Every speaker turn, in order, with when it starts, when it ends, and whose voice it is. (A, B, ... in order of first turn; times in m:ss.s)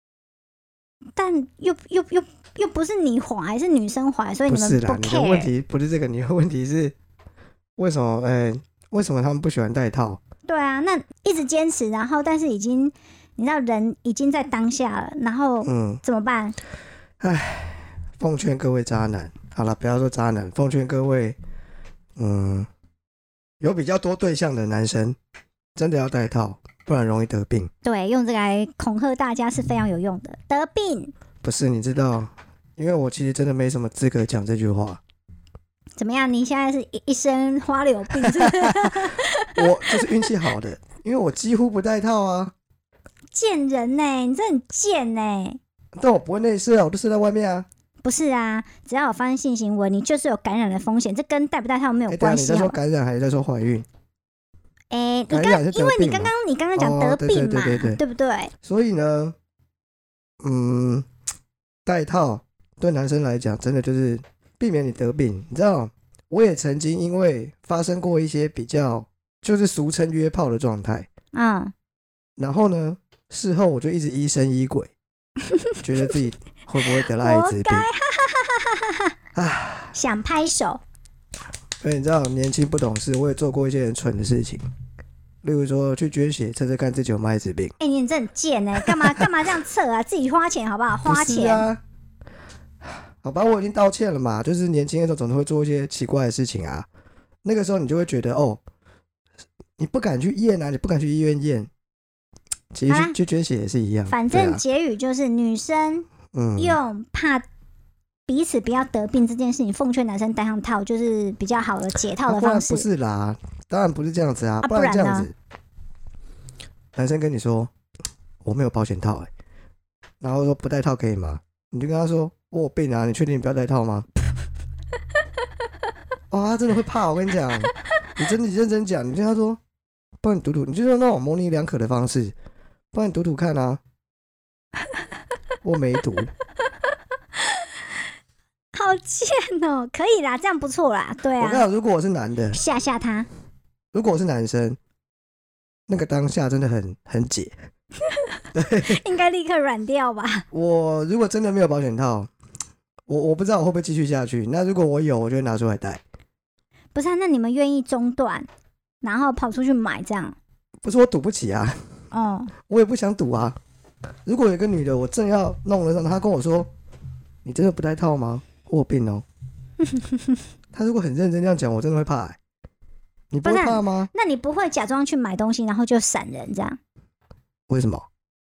0:01.2-0:05.5 A
0:04.5-0:07.0 B
0:07.8-0:10.2 B
0:10.5-0:16.6 A
0:15.6-0:16.0 B
0:17.2-0:21.4 B
0:22.2-0:22.7 B
0:23.6-0:25.2 B
0:25.8-0:27.7 B
0:27.8-0:31.1 A
0:31.4-0:35.0 B
0:36.0-0:40.3 A
0:38.2-0:42.5 B
0:43.3-0:45.6 A
0:46.0-0:47.7 B
0:48.0-0:52.8 A
0:52.1-0:53.9 B
0:54.9-0:58.5 A
0:55.3-0:58.0 B
0:58.6-0:59.4 B
1:00.4-1:01.1 B
1:01.9-1:11.1 B
1:11.3-1:11.7 A
1:12.4-1:14.9 B
1:15.8-1:17.9 B
1:17.0-1:19.1 A
1:19.4-1:20.0 B
1:19.9-1:20.8 A
1:21.8-1:24.6 B
1:25.4-1:27.7 B
1:27.8-1:31.7 A
1:28.8-1:29.3 B
1:31.1-1:31.8 B
1:32.8-1:36.9 B
1:37.4-1:38.6 B
1:39.8-1:41.7 B
1:42.7-1:44.6 B
1:42.9-1:43.2 A
1:44.1-1:47.4 A
1:46.3-1:46.8 B
1:48.3-1:52.9 A
1:52.2-1:55.3 B
1:54.6-1:55.3 A
1:57.0-1:57.7 B
1:58.4-1:59.3 B
2:00.2-2:04.1 B
2:06.3-2:09.6 B
2:10.2-2:12.4 B
2:12.9-2:13.8 B
2:15.6-2:16.3 B
2:18.7-2:21.7 A
2:21.4-2:22.6 B
2:22.5-2:23.3 A
2:23.9-2:24.8 B
2:25.9-2:27.6 B
2:28.5-2:29.0 B
2:28.8-2:30.5 A
2:30.5-2:32.3 B
2:33.1-2:36.0 B
2:37.0-2:38.5 A
2:39.0-2:40.4 A
2:40.8-2:41.8 B
2:42.1-2:42.5 A
2:42.7-2:43.6 B
2:44.3-2:46.7 B
2:47.4-2:49.2 B
2:50.0-2:50.2 A
2:50.7-2:52.4 B
2:53.3-2:54.1 B
2:53.4-2:56.8 A
2:57.7-2:58.1 B